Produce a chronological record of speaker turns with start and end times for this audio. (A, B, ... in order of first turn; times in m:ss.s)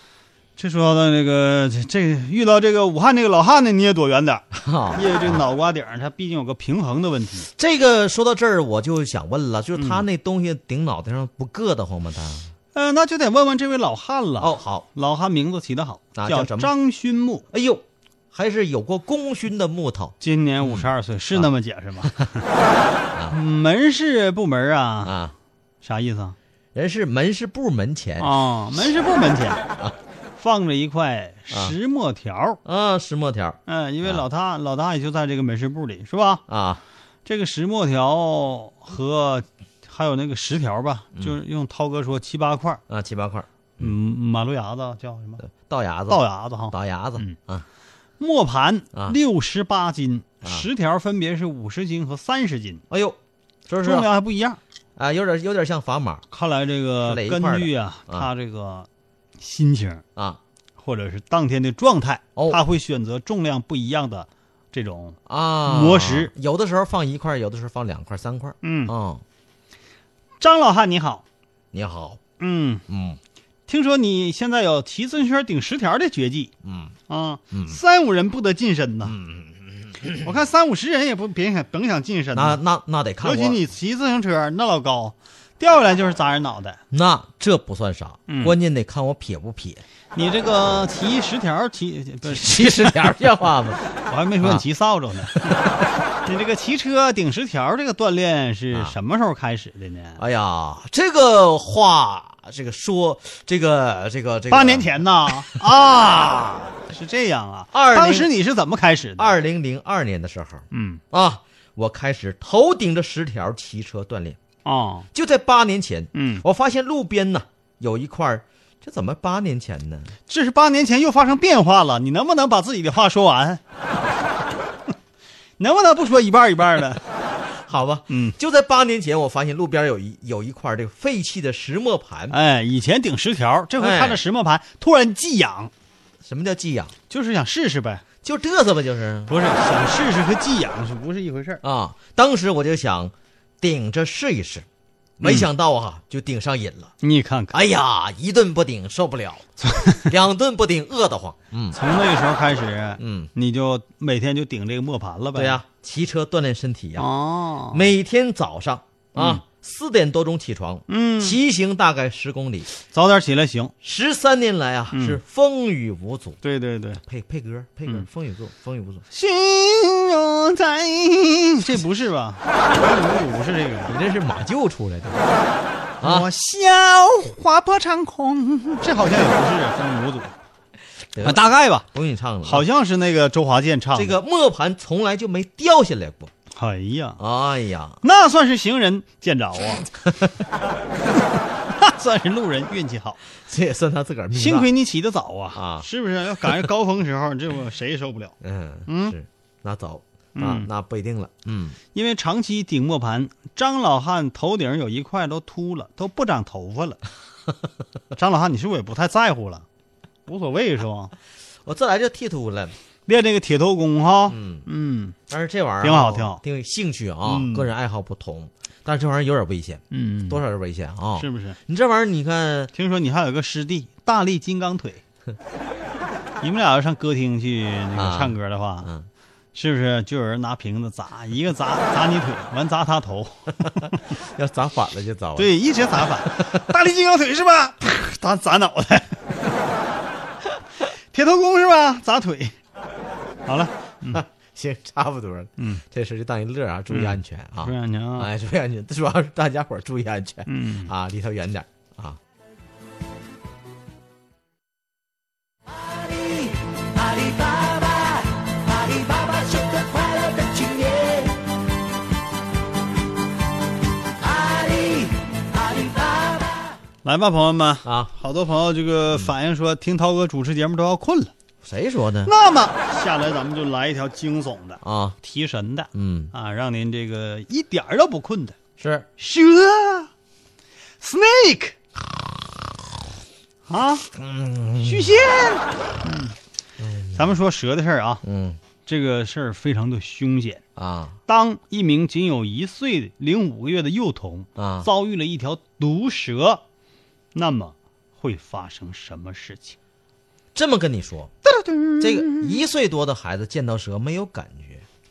0:00.6-0:07.5 A
0:04.5-0:05.4 B
0:07.5-0:12.5 B
0:09.8-0:10.0 A
0:12.7-0:17.5 A
0:14.4-0:14.8 B
0:16.1-0:16.7 B
0:17.5-0:21.5 B
0:20.2-0:22.4 A
0:23.3-0:25.1 A
0:25.0-0:25.3 B
0:25.8-0:26.4 A
0:26.7-0:28.4 B
0:28.2-0:29.6 A
0:30.4-0:32.6 A
0:31.5-0:31.8 B
0:32.6-0:34.2 B
0:33.7-0:36.4 A
0:36.5-0:36.8 B
0:37.2-0:42.8 A
0:42.9-0:43.9 B
0:43.8-0:45.4 A
0:45.4-0:47.6 B
0:46.1-0:47.4 A
0:48.2-0:52.8 A
0:52.9-0:54.1 B
0:53.8-0:54.6 A
0:55.0-0:56.2 B
0:56.3-0:58.9 A
0:57.0-0:58.3 B
0:59.4-1:00.0 A
1:00.8-1:06.3 A
1:05.3-1:09.2 B
1:08.6-1:08.9 A
1:10.4-1:11.2 A
1:11.7-1:12.2 B
1:12.4-1:12.8 A
1:12.9-1:13.2 B
1:13.7-1:16.5 A
1:16.6-1:16.9 B
1:17.1-1:19.2 A
1:17.5-1:17.8 B
1:19.0-1:20.3 B
1:20.2-1:22.6 A
1:22.3-1:23.6 B
1:23.2-1:26.8 A
1:26.9-1:29.8 B
1:28.3-1:28.6 A
1:30.1-1:35.6 A
1:32.2-1:33.8 B
1:35.4-1:35.8 B
1:36.2-1:40.2 A
1:40.2-1:45.0 B
1:44.5-1:49.3 A
1:47.7-1:48.3 B
1:49.2-1:54.4 B
1:50.7-1:51.0 A
1:54.6-1:55.1 A
1:55.1-2:00.1 B
1:56.1-1:56.4 A
2:00.3-2:03.6 A
2:05.6-2:07.0 A
2:07.6-2:12.4 B
2:08.1-2:08.4 A
2:12.3-2:15.7 A
2:13.8-2:14.2 B
2:16.2-2:16.9 B
2:17.1-2:18.0 A
2:18.2-2:19.3 B
2:19.3-2:21.6 A
2:21.6-2:24.6 B
2:25.2-2:26.9 B
2:27.0-2:27.6 A
2:27.5-2:31.8 B
2:29.7-2:30.0 A
2:31.7-2:35.6 A
2:33.0-2:33.3 B
2:35.3-2:37.1 B
2:37.0-2:37.9 A
2:37.7-2:42.7 B
2:39.2-2:39.4 A
2:40.9-2:41.4 A
2:42.9-2:43.7 A
2:43.8-2:46.4 B
2:44.9-2:45.2 A
2:46.4-2:47.0 A
2:47.0-2:49.0 B
2:49.1-2:54.0 A
2:53.9-2:55.2 B
2:56.0-2:56.3 B
2:56.0-3:00.4 A
3:01.1-3:02.7 B
3:01.2-3:01.9 A
3:02.4-3:04.2 A
3:03.9-3:06.3 B
3:06.5-3:07.2 A
3:07.2-3:08.0 B
3:08.0-3:09.9 A
3:11.8-3:13.2 A
3:13.4-3:14.7 B
3:14.3-3:18.4 A
3:15.5-3:15.8 B
3:18.4-3:21.8 B
3:18.9-3:19.1 A
3:20.4-3:20.7 A
3:21.9-3:27.0 A
3:28.1-3:29.6 A
3:30.2-3:31.1 A
3:31.6-3:32.7 B
3:33.1-3:35.2 A
3:34.3-3:34.7 B
3:35.3-3:42.7 B
3:35.8-3:36.4 A
3:37.2-3:37.7 A
3:39.9-3:40.4 A
3:41.2-3:41.6 A
3:42.7-3:45.0 A
3:46.4-3:48.9 A
3:47.9-3:49.1 B
3:49.5-3:54.0 A
3:54.1-3:55.5 B
3:55.4-3:59.2 A
4:01.1-4:02.6 A
4:03.4-4:04.2 A
4:04.1-4:12.2 B
4:06.9-4:08.3 A
4:10.5-4:10.9 A
4:15.8-4:21.4 C
4:24.2-4:26.7 C
4:27.0-4:31.3 A
4:27.8-4:28.1 B
4:31.6-4:32.3 B
4:32.2-4:38.6 A
4:34.8-4:35.2 B
4:35.9-4:36.3 B
4:38.8-4:39.1 B
4:39.2-4:40.1 A
4:41.0-4:41.8 A
4:43.7-4:44.1 A
4:44.1-4:45.2 B
4:44.8-4:46.4 A
4:46.8-4:47.3 B
4:47.1-4:48.2 A
4:48.2-4:48.6 B
4:48.8-4:50.6 A
4:50.8-4:51.2 B
4:51.3-4:56.6 A
4:54.6-4:54.9 B
4:57.3-4:59.8 A
5:00.5-5:01.3 B
5:01.4-5:02.6 A
5:02.0-5:04.8 B